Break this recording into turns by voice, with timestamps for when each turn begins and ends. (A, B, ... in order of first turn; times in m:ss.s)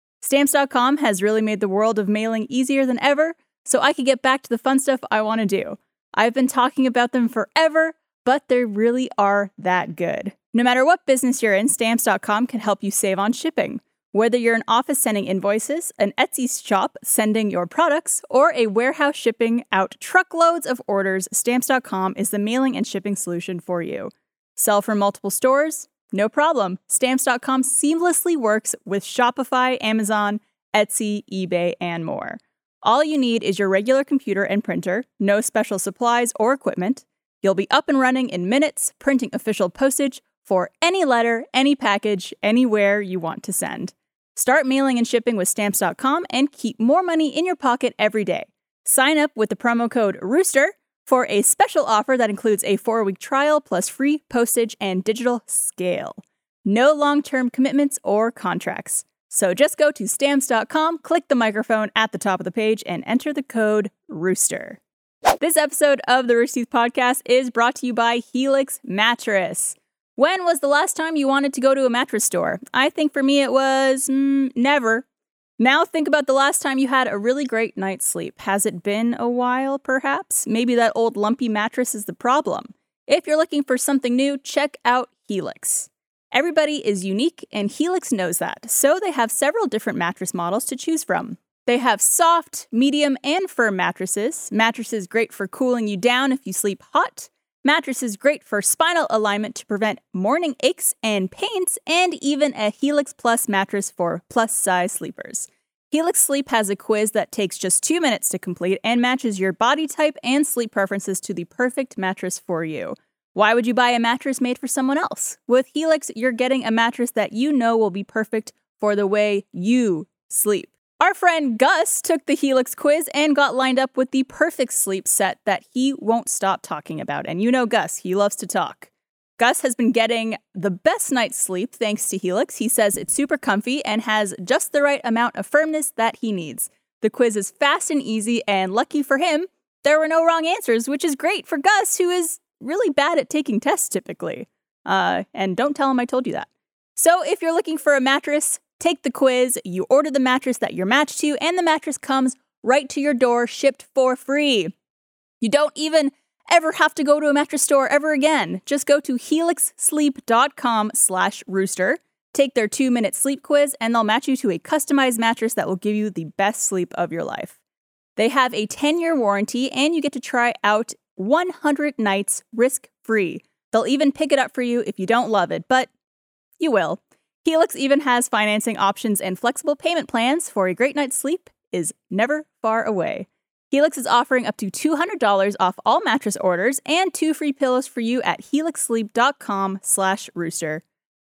0:00.2-1:04.8 A
1:05.4-1:15.0 A
1:15.6-2:34.7 A
2:35.4-2:47.6 A
2:48.2-2:55.9 A
2:56.6-3:10.8 A